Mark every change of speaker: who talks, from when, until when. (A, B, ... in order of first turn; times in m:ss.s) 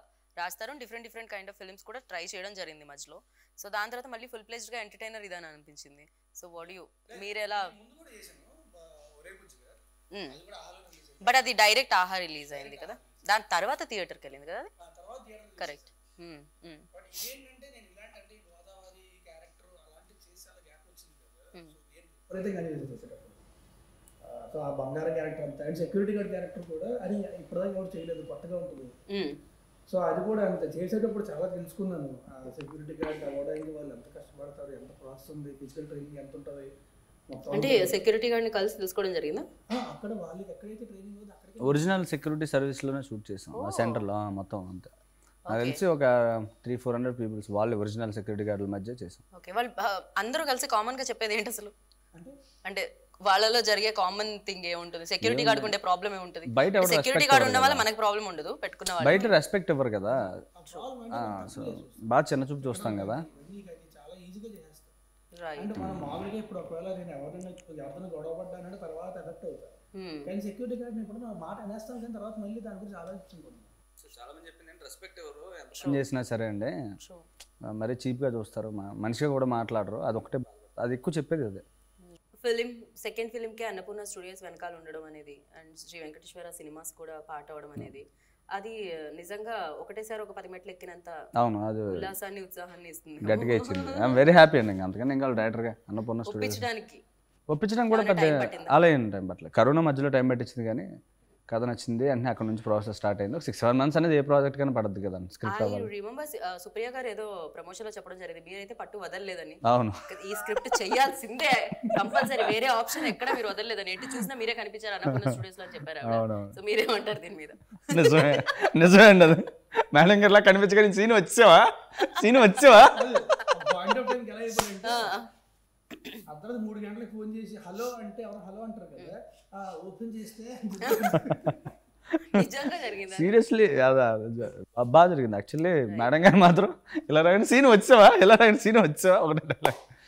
0:00.4-0:07.7 A
0:07.1-0:11.4 B
0:11.2-0:14.7 A
0:12.5-0:13.2 B
0:14.8-0:15.9 B
0:15.6-0:16.8 A
0:16.9-0:23.4 B
0:24.2-0:28.9 B
0:29.1-0:29.4 A
0:29.9-0:36.7 B
0:37.3-0:37.9 B
0:37.5-0:39.4 A
0:39.7-0:41.9 B
0:41.6-0:44.9 C
0:43.5-0:44.0 A
0:45.5-0:45.8 A
0:45.5-0:49.2 C
0:49.3-0:51.7 A
0:52.6-0:59.3 A
0:55.2-0:55.7 C
0:56.5-0:57.8 C
0:59.0-1:00.4 C
1:00.2-1:02.0 B
1:01.1-1:03.2 C
1:02.6-1:04.9 B
1:05.4-1:05.7 A
1:05.6-1:09.7 B
1:10.0-1:10.3 A
1:10.2-1:13.7 B
1:14.0-1:16.7 C
1:15.8-1:16.0 A
1:17.0-1:17.3 A
1:17.6-1:21.6 C
1:22.0-1:31.1 A
1:31.4-1:32.1 C
1:31.9-1:34.2 A
1:33.2-1:36.6 C
1:36.2-1:37.0 A
1:37.5-1:40.9 C
1:37.9-1:38.8 A
1:41.5-1:45.9 C
1:45.4-1:58.4 A
1:49.6-1:50.0 C
1:56.0-1:56.6 C
1:57.9-2:03.1 C
2:02.8-2:05.1 B
2:04.8-2:05.3 A
2:06.3-2:11.6 B
2:10.9-2:11.2 A
2:12.3-2:13.3 A
2:13.1-2:19.8 C